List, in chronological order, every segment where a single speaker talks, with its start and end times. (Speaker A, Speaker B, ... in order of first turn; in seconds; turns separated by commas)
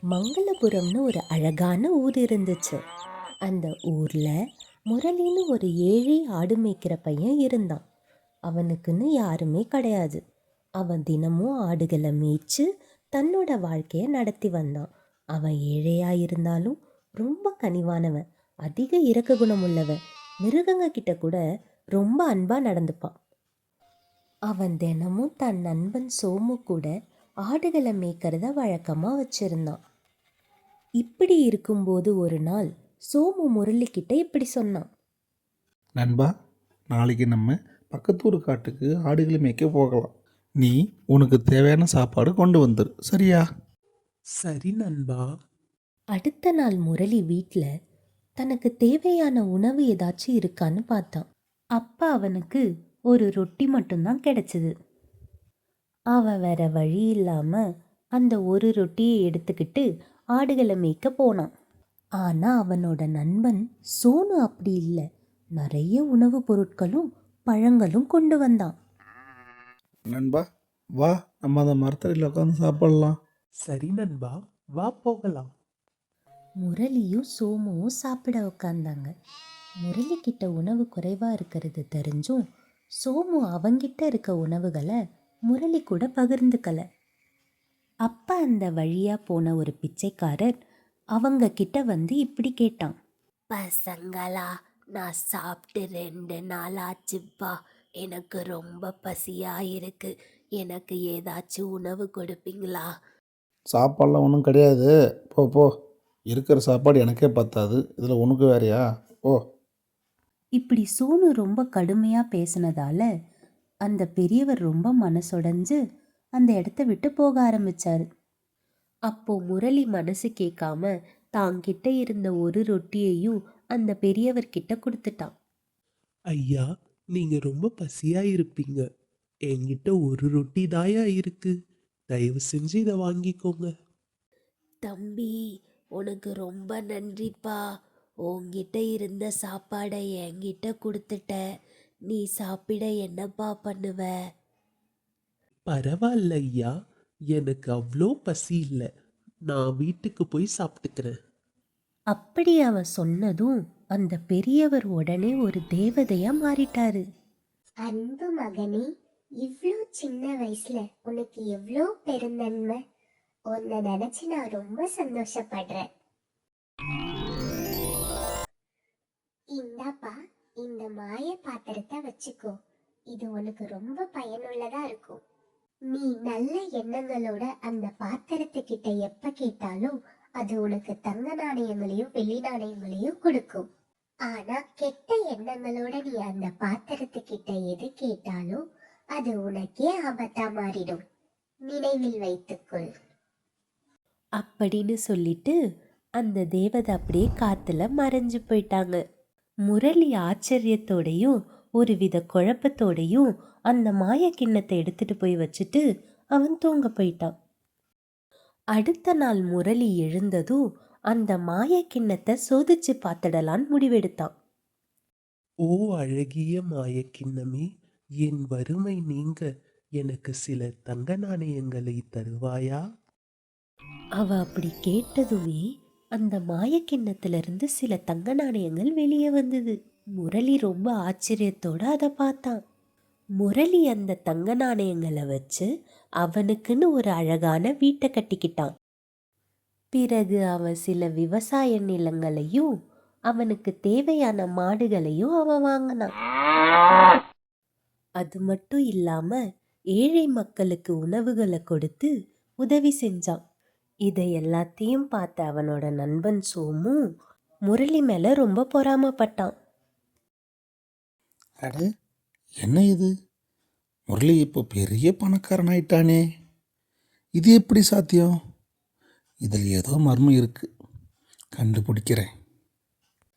Speaker A: 0.1-2.8, Speaker A: 3.5-4.3, Speaker A: 4.9-7.8, Speaker A: 8.5-10.2, Speaker A: 10.8-21.4, Speaker A: 22.0-23.1, Speaker A: 24.5-26.9, Speaker A: 27.5-29.8, Speaker A: 31.0-34.9, Speaker B: 36.0-36.3, Speaker B: 36.9-43.5, Speaker C: 44.4-45.3, Speaker A: 46.1-47.7, Speaker A: 48.4-51.3, Speaker A: 51.8-54.7, Speaker A: 56.1-57.6, Speaker A: 58.2-61.5, Speaker A: 62.2-65.0, Speaker A: 65.6-68.7, Speaker B: 70.1-70.4, Speaker B: 71.0-73.2, Speaker C: 73.7-75.5, Speaker A: 76.6-79.1, Speaker A: 79.9-82.4, Speaker A: 83.0-85.0, Speaker A: 85.5-86.8, Speaker A: 88.1-90.5, Speaker A: 91.2-93.0, Speaker A: 93.5-102.9, Speaker B: 103.7-105.7, Speaker B: 106.3-109.4, Speaker A: 110.6-113.1, Speaker A: 113.9-115.8, Speaker A: 116.4-118.1, Speaker A: 119.1-125.3, Speaker C: 126.3-128.8, Speaker C: 129.5-131.5, Speaker C: 132.1-133.7, Speaker A: 134.8-135.4, Speaker A: 136.0-137.6, Speaker A: 138.2-141.4, Speaker A: 142.1-144.1, Speaker C: 145.7-146.7, Speaker C: 147.3-148.9, Speaker C: 149.5-151.1, Speaker A: 152.1-157.0, Speaker D: 157.8-158.9, Speaker D: 159.4-162.8, Speaker D: 163.5-165.9, Speaker D: 169.5-172.5, Speaker D: 173.1-175.2, Speaker D: 175.9-183.7, Speaker D: 184.3-188.6, Speaker D: 189.2-191.0, Speaker D: 191.7-192.9, Speaker A: 194.4-195.6, Speaker A: 196.2-199.0, Speaker A: 199.7-205.8, Speaker A: 206.3-207.3, Speaker A: 208.8-210.6, Speaker A: 211.1-214.3, Speaker C: 215.7-217.7, Speaker C: 218.2-219.5, Speaker C: 220.0-222.8, Speaker A: 224.2-225.6, Speaker A: 226.2-232.6, Speaker A: 233.4-235.7, Speaker A: 236.2-238.7, Speaker A: 239.9-242.7, Speaker A: 243.3-246.1, Speaker A: 248.2-249.4, Speaker A: 250.0-252.1, Speaker A: 252.6-253.4, Speaker A: 254.1-257.0, Speaker A: 257.7-259.5, Speaker B: 261.6-261.9, Speaker B: 262.6-263.1, Speaker B: 264.1-266.2, Speaker B: 267.4-268.3, Speaker B: 269.5-270.7, Speaker B: 271.6-272.3